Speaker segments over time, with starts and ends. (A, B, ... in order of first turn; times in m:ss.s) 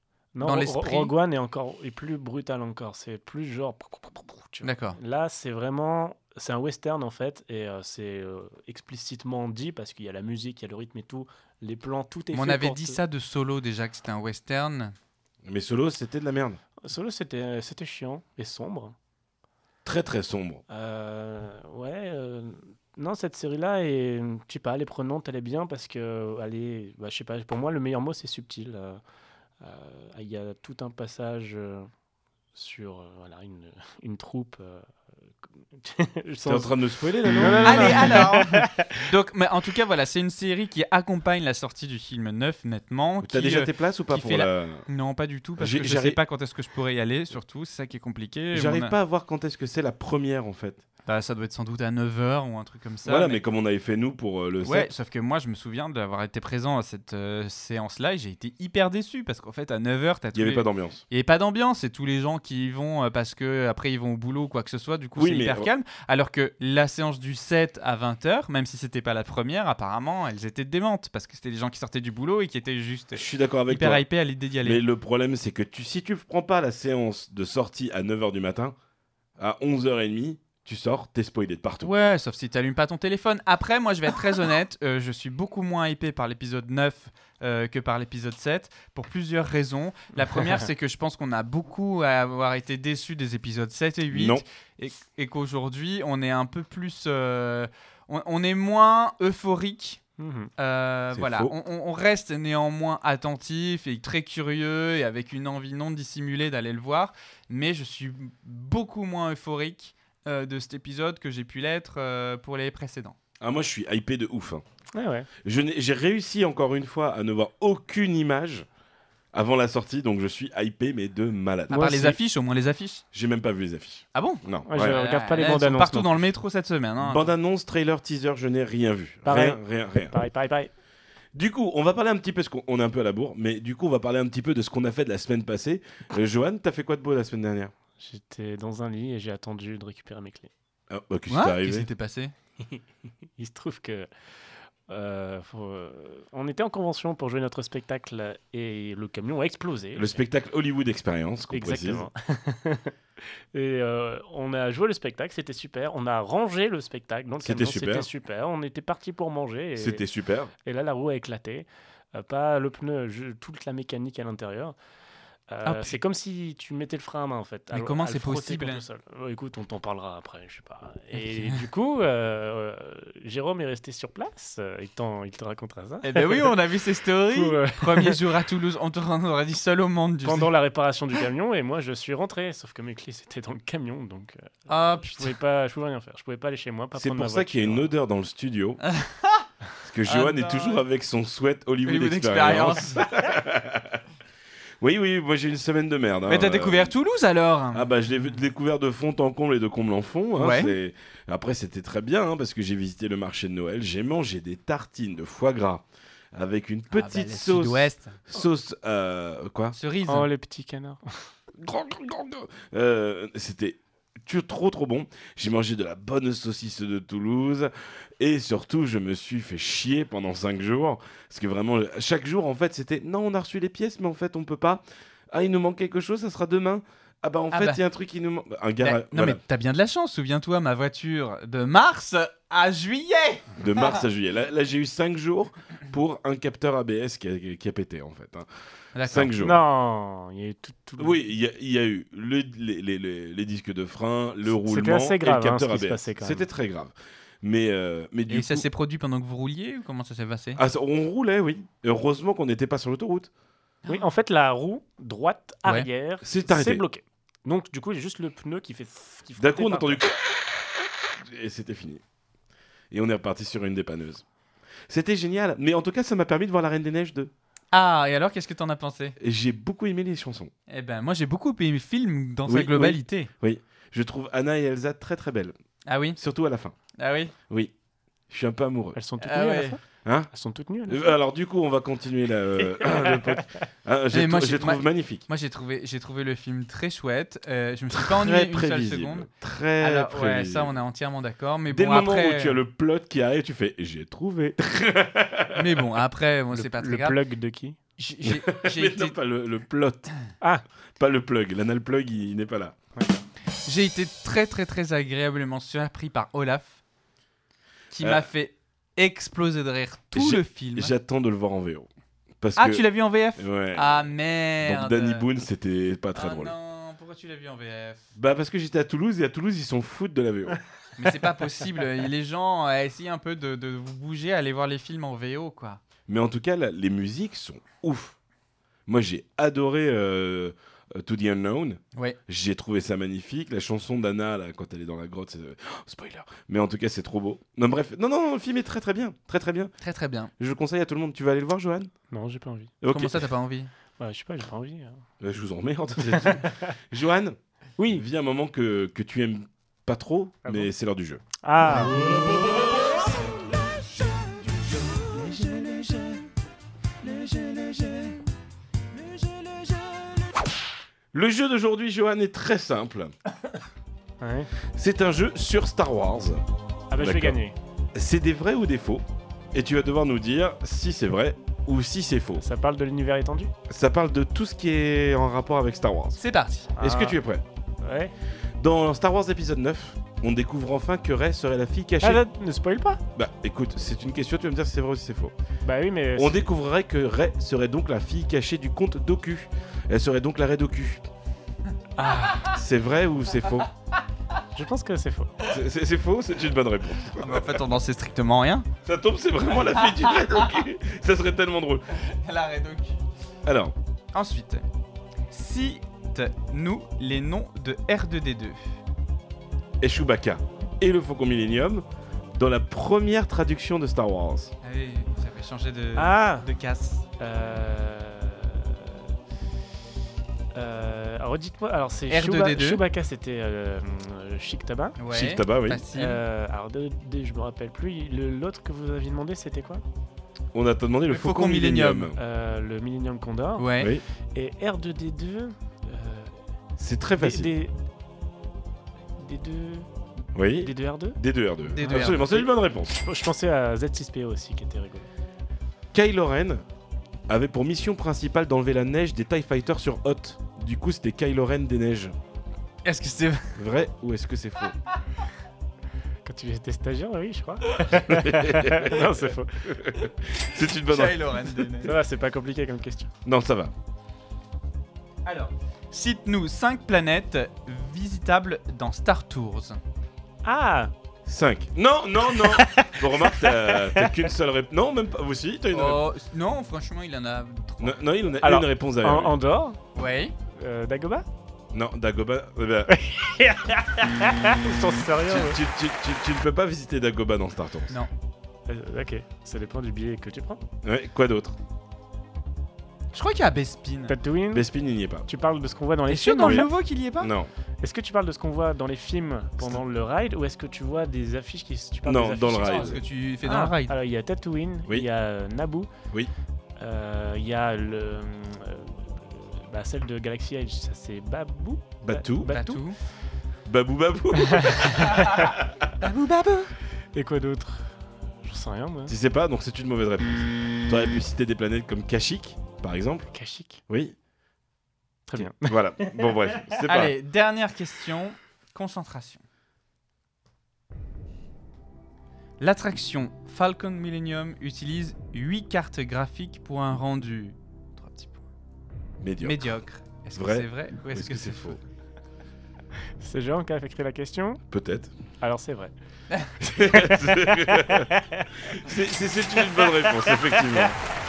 0:00.4-0:13.0 A
0:00.4-0:01.1 B
0:04.6-0:05.0 B
0:12.3-0:14.9 B
0:15.4-0:16.6 C
0:16.8-0:19.0 A
0:19.8-0:20.6 C
0:20.7-0:29.0 A
0:29.6-0:31.9 A
0:32.6-0:34.8 A
0:35.8-0:39.0 A
0:36.4-0:38.3 C
0:37.6-0:49.0 B
0:43.2-0:44.9 C
0:45.6-0:46.2 C
0:48.5-0:50.8 C
0:51.1-0:53.4 B
0:53.1-0:54.9 C
0:54.6-1:14.8 B
1:00.3-1:01.0 C
1:05.2-1:05.7 C
1:13.2-1:14.0 C
1:14.6-1:18.8 C
1:19.4-1:21.9 C
1:21.8-1:40.0 B
1:34.1-1:34.4 C
1:40.2-1:40.5 A
1:40.6-1:53.2 B
1:41.1-1:41.5 C
1:53.4-1:54.6 C
1:54.9-1:55.3 A
1:55.4-1:58.7 C
1:59.3-2:01.9 C
2:01.7-2:02.2 A
2:01.7-2:03.0 B
2:03.1-2:05.0 C
2:04.2-2:07.3 B
2:04.7-2:06.2 A
2:07.0-2:10.1 C
2:09.2-2:10.7 A
2:11.3-2:17.7 C
2:18.0-2:20.5 A
2:20.9-2:21.9 C
2:21.3-2:22.3 B
2:23.4-2:24.1 A
2:24.9-2:30.2 A
2:30.0-2:32.1 C
2:31.5-2:32.9 A
2:33.5-2:40.0 A
2:37.4-2:38.1 C
2:39.8-2:40.5 C
2:40.6-2:44.8 A
2:45.5-2:56.6 A
2:45.7-2:45.9 B
2:47.7-2:48.8 B
2:56.0-3:00.5 B
2:57.2-2:58.2 A
3:00.2-3:04.5 A
3:04.7-3:05.3 B
3:05.0-3:07.9 A
3:07.0-3:08.8 C
3:08.8-3:09.4 B
3:09.8-3:14.0 C
3:10.0-3:10.8 B
3:11.8-3:13.0 B
3:14.8-3:16.9 C
3:16.3-3:17.9 B
3:17.7-3:29.8 C
3:20.4-3:20.8 B
3:26.9-3:28.2 B
3:29.8-3:30.3 B
3:30.1-3:31.2 A
3:31.6-3:49.4 C
3:47.5-3:47.8 B
3:48.8-3:54.0 B
3:53.6-3:58.5 C
3:59.0-3:59.3 B
3:59.0-3:59.6 C
3:59.4-4:01.2 A
4:01.0-4:08.7 C
4:04.6-4:06.5 A
4:08.3-4:10.6 B
4:10.6-4:13.3 C
4:13.9-4:20.0 A
4:16.2-4:16.8 C
4:19.4-4:22.0 C
4:22.9-4:24.2 C
4:24.9-4:27.3 C
4:27.7-4:29.2 B
4:29.2-4:30.5 C
4:30.7-4:33.3 B
4:32.5-4:35.6 C
4:35.9-4:36.2 B
4:36.2-4:36.8 C
4:37.0-4:37.3 B
4:38.3-4:39.0 C
4:39.0-4:39.8 A
4:39.2-4:39.8 B
4:40.0-4:40.3 C
4:40.3-4:41.1 A
4:40.9-4:45.3 C
4:42.8-4:43.4 A
4:44.1-4:49.3 B
4:47.9-4:50.7 C
4:49.8-4:52.6 B
4:51.7-4:55.9 C
4:55.5-4:57.2 B
4:56.5-4:57.8 A
4:58.0-4:59.2 B
4:58.2-5:00.1 C
5:01.0-5:02.8 C
5:03.0-5:03.3 A
5:03.7-5:06.8 B
5:07.9-5:10.9 B
5:08.0-5:08.3 C
5:10.1-5:11.9 C
5:12.4-5:12.8 C
5:12.6-5:15.3 B
5:13.4-5:16.5 C
5:16.1-5:18.1 B
5:18.2-5:20.6 C
5:21.0-5:25.8 B
5:26.1-5:28.2 C
5:28.9-5:39.7 C
5:39.8-5:40.3 B
5:40.4-5:41.9 C
5:42.1-5:42.8 A
5:42.8-5:43.3 C
5:42.9-5:43.7 B
5:44.0-5:45.0 A
5:45.2-5:47.4 C
5:46.2-5:46.7 A
5:47.8-5:48.0 A
5:47.9-5:51.2 C
5:51.4-5:52.5 A
5:53.8-5:56.3 A
5:57.0-5:58.2 A
5:59.0-6:00.2 A
6:01.1-6:03.1 C
6:04.2-6:04.5 A
6:04.7-6:06.4 C
6:06.9-6:07.6 A
6:07.0-6:07.4 C
6:07.9-6:12.4 C
6:12.4-6:13.5 A
6:13.7-6:16.2 C
6:16.2-6:16.7 B
6:16.8-6:17.2 A
6:16.8-6:17.4 C
6:17.8-6:18.1 A
6:18.6-6:22.2 C
6:22.0-6:23.0 A
6:23.2-6:25.3 C
6:25.6-6:26.5 A
6:26.2-6:31.0 C
6:32.0-6:32.5 A
6:32.4-6:33.7 C
6:34.5-6:35.3 A
6:35.4-6:37.7 C
6:37.2-6:38.7 B
6:38.8-6:41.8 C
6:39.8-6:40.5 B
6:42.0-6:43.0 B
6:43.5-6:43.8 C
6:44.1-6:44.6 B
6:45.3-6:48.6 B
6:49.8-6:54.5 C
6:54.6-6:57.0 B
6:56.0-6:56.5 A
6:57.2-6:59.0 A
7:00.6-7:05.0 A
7:02.1-7:02.8 B
7:05.0-7:06.2 B
7:05.1-7:05.9 C
7:05.9-7:09.8 A
7:10.5-7:12.2 C
7:11.1-7:12.1 B
7:12.2-7:13.7 A
7:13.6-7:13.9 B
7:13.8-7:14.0 C
7:14.3-7:16.4 A
7:16.8-7:17.5 C
7:17.2-7:17.9 A
7:19.2-7:19.9 A
7:20.3-7:23.0 C
7:20.6-7:21.2 A
7:21.7-7:22.4 B
7:21.8-7:25.1 A
7:25.9-7:26.6 C
7:27.3-7:32.2 C
7:32.8-7:33.6 B
7:33.6-7:34.8 C
7:36.2-7:40.0 A
7:38.0-7:39.1 C
7:39.6-7:41.5 C
7:40.8-7:42.0 B
7:41.8-7:43.1 A
7:43.2-7:43.7 C
7:45.2-7:49.8 B
7:50.4-7:50.9 A
7:51.3-7:56.0 C
7:52.4-7:54.2 A
7:55.7-7:58.0 B
7:57.8-7:59.3 C
7:58.4-7:59.8 A
8:00.0-8:00.3 B
8:00.5-8:01.3 A
8:01.7-8:02.9 C
8:02.9-8:05.6 A
8:05.3-8:08.0 C
8:08.7-8:10.6 A
8:10.8-8:11.6 C
8:13.1-8:14.2 B
8:14.1-8:14.7 A
8:14.5-8:15.3 C
8:15.3-8:16.7 A
8:16.1-8:17.3 B
8:16.4-8:16.7 C
8:17.2-8:17.5 C
8:17.8-8:25.9 A
8:22.0-8:23.0 C
8:22.6-8:23.9 B
8:26.8-8:32.9 A
8:32.0-8:32.5 C
8:32.5-8:33.0 B
8:33.6-8:35.8 C
8:34.6-8:35.6 A
8:35.1-8:36.7 B
8:37.1-8:39.2 A
8:39.1-8:43.3 C
8:43.3-8:43.8 A
8:43.9-8:44.2 C
8:45.3-8:46.3 A
8:45.4-8:47.1 C
8:46.9-8:49.4 B
8:52.6-8:58.4 B
8:59.2-8:59.6 C
8:59.4-9:01.8 B
9:00.4-9:01.8 C
9:03.2-9:04.6 A
9:04.7-9:05.1 C
9:05.4-9:05.9 A
9:06.6-9:11.0 C
9:06.7-9:08.5 A
9:10.1-9:10.6 A